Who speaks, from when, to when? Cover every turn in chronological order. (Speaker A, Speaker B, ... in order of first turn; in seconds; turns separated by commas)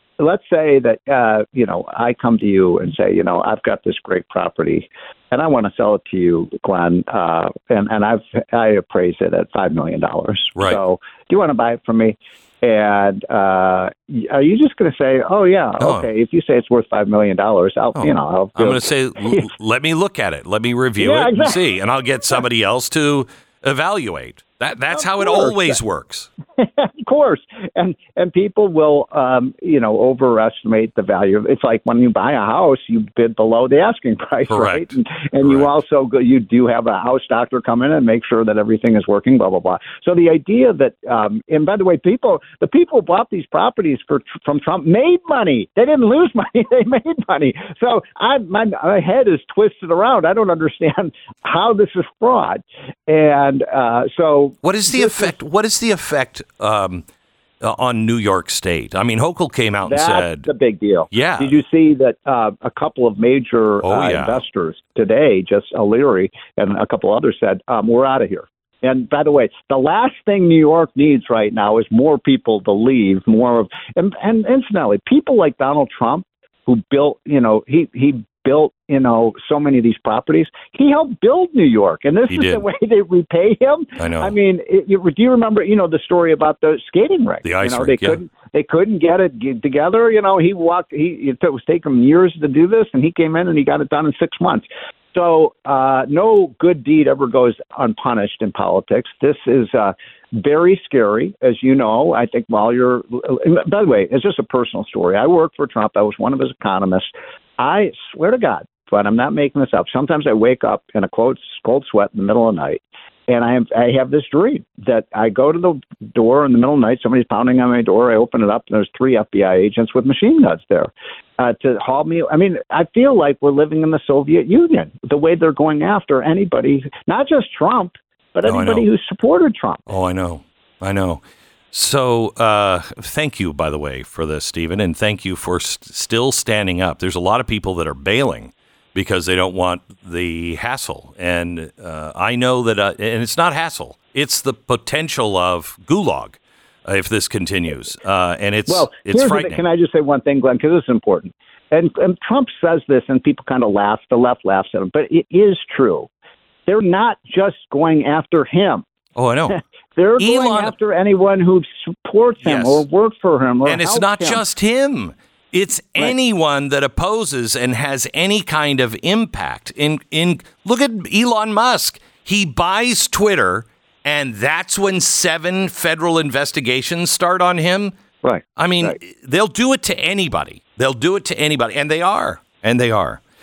Speaker A: 0.2-19.5, Speaker B: 15.8-16.1, Speaker B: 18.0-26.3, Speaker A: 21.0-21.6, Speaker A: 24.9-25.8, Speaker A: 26.6-55.3, Speaker B: 34.5-35.7, Speaker B: 54.6-57.0, Speaker B: 57.6-60.5, Speaker A: 59.9-129.9, Speaker B: 61.1-61.6, Speaker B: 63.8-64.4, Speaker B: 82.3-82.6, Speaker B: 84.0-84.3, Speaker B: 87.4-88.2, Speaker B: 128.4-128.9, Speaker B: 129.9-149.6, Speaker A: 148.7-156.1, Speaker A: 156.7-158.8, Speaker B: 159.2-159.6, Speaker A: 159.5-164.4, Speaker B: 160.2-160.7, Speaker B: 162.4-162.8, Speaker B: 163.6-177.9, Speaker A: 178.2-178.9, Speaker B: 178.6-183.2